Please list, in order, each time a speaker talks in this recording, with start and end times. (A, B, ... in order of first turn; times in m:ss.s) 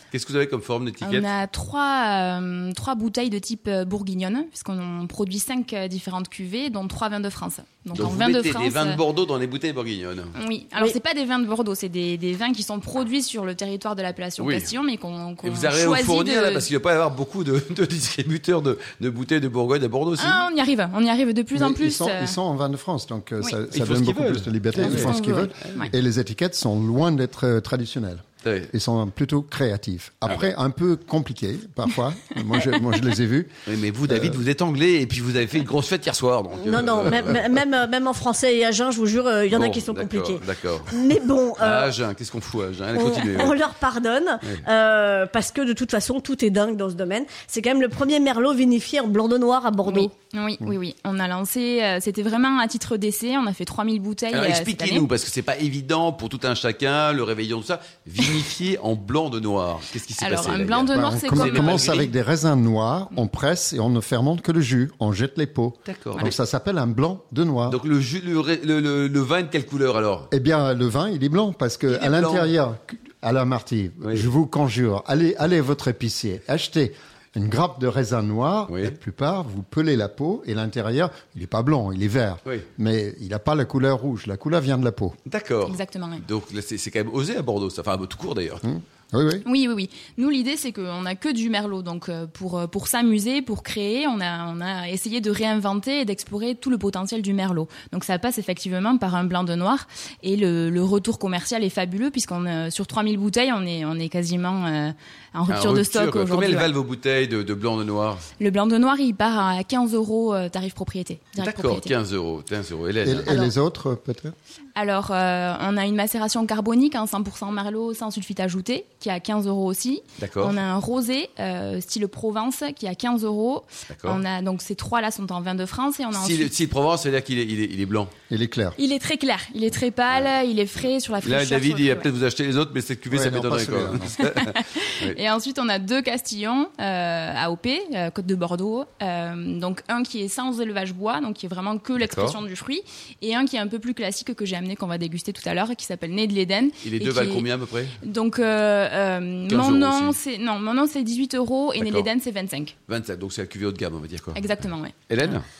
0:00.1-0:01.3 A
0:01.0-0:09.0 B
0:07.9-0:10.3 A
0:10.3-0:16.7 B
0:14.4-0:14.7 A
0:15.4-0:20.5 A
0:20.2-0:22.3 B
0:21.5-0:33.6 C
0:23.7-0:25.9 A
0:24.8-0:25.9 B
0:28.4-0:28.7 A
0:33.7-0:37.6 A
0:34.1-0:34.4 C
0:36.6-0:41.9 D
0:39.5-0:41.0 A
0:41.6-0:43.6 A
0:42.9-0:50.1 D
0:49.8-0:55.1 B
0:54.3-1:02.1 A
1:00.2-1:01.9 B
1:00.9-1:07.8 C
1:05.8-1:06.3 A
1:07.7-1:10.3 A
1:10.3-1:25.2 C
1:11.9-1:12.5 A
1:18.7-1:18.9 A
1:25.3-1:28.6 A
1:25.7-1:26.2 B
1:28.6-1:29.4 C
1:29.4-1:46.7 B
1:45.5-1:48.2 A
1:48.4-1:51.9 B
1:51.4-1:53.4 A
1:53.0-1:54.3 C
1:54.8-2:06.5 B
2:00.2-2:00.6 A
2:03.9-2:04.2 A
2:06.2-2:08.1 A
2:08.3-2:08.8 C
2:08.8-2:12.1 B
2:11.2-2:15.2 A
2:13.1-2:14.2 C
2:14.2-2:27.4 B
2:22.0-2:22.4 A
2:26.8-2:28.0 A
2:28.0-2:32.7 B
2:29.5-2:30.2 A
2:31.8-2:32.1 A
2:32.9-2:34.4 A
2:34.3-2:34.9 B
2:35.1-2:35.4 A